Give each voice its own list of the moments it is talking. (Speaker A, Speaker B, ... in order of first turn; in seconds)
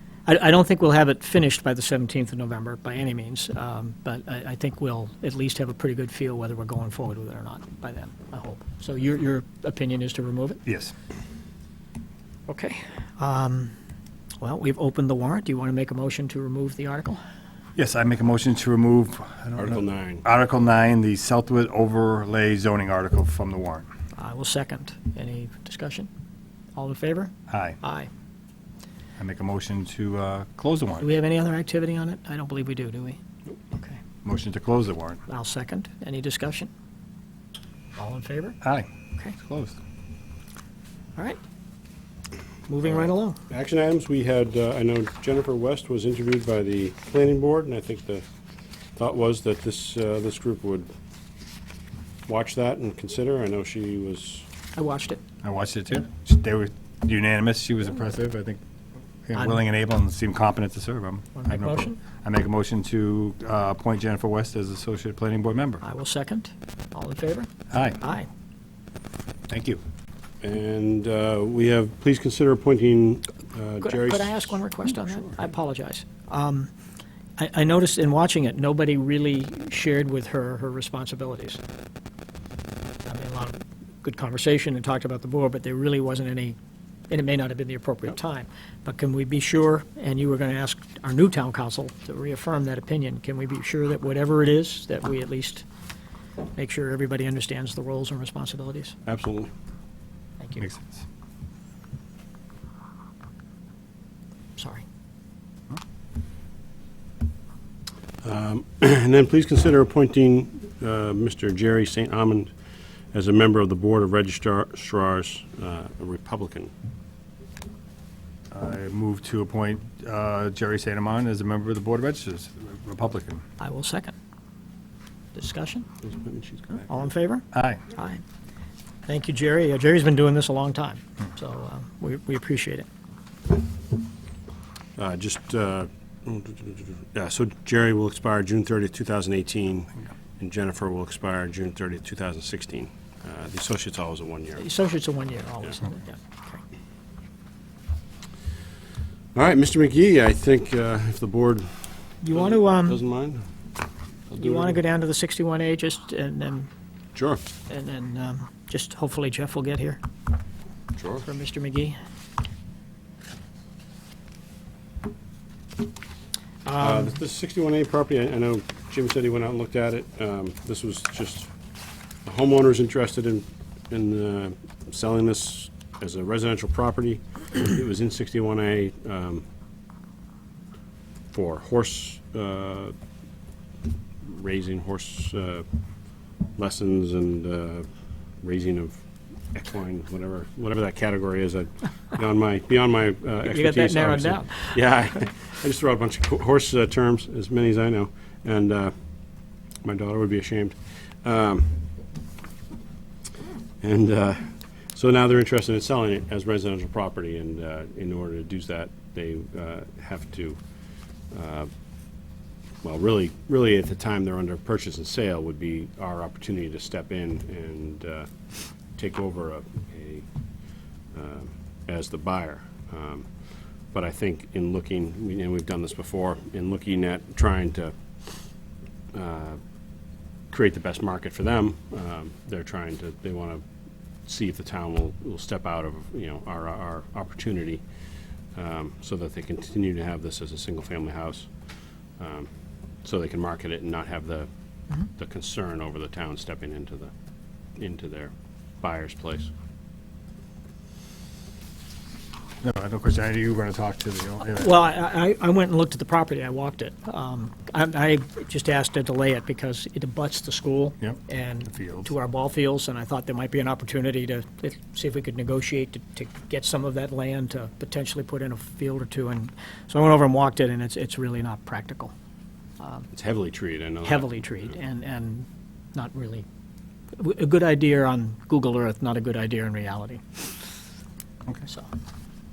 Speaker A: 0.2-10.6, 12.5-13.7, 14.4-17.2, 24.2-26.1, 26.7-28.1, 31.0-33.2, 33.7-34.0, 35.3-36.7, 38.0-38.6, 42.7-43.4, 54.8-55.2, 61.3-62.0, 65.8-68.3, 73.8-76.7, 77.4-81.6, 83.0-86.5, 87.1-95.6, 96.5-99.0, 100.4-100.6, 104.6-104.8, 123.6-124.1, 125.3-125.9, 126.8-128.2, 129.1-132.9, 144.6-146.6, 152.2-153.0, 154.3-156.7, 157.7-160.0, 161.2-162.0, 166.6-167.1, 193.4-194.8, 254.5-272.1, 272.8-273.1, 274.0-276.4, 277.2-280.5
Speaker B: 10.6-10.9, 17.8-23.9, 27.5-27.8, 29.2-31.1, 34.2-35.2, 38.6-39.8, 55.4-58.6, 59.2-65.8, 67.7-68.0, 69.5-69.8, 100.6-101.0, 118.5-123.4, 127.5-127.8, 252.6-254.7, 261.0-262.1
Speaker C: 19.6-20.2, 42.9-48.2, 48.9-50.9, 52.3-54.5, 70.4-75.3, 99.0-99.5, 108.2-112.5, 113.1-116.7, 126.0-126.9, 134.9-144.6, 149.3-153.5, 154.3-154.8, 157.1-157.4, 160.9-161.2, 166.8-171.5, 172.2-179.4, 181.3-182.9, 184.2-185.7, 186.6-187.9, 188.4-198.9, 199.8-201.8, 203.8-210.6, 211.3-211.7, 212.8-220.3, 221.1-228.6, 229.1-229.6, 230.5-233.6, 234.2-237.8, 238.5-241.5, 242.2-242.5, 243.0-244.5, 245.1-247.1, 247.8-249.5, 273.1-274.7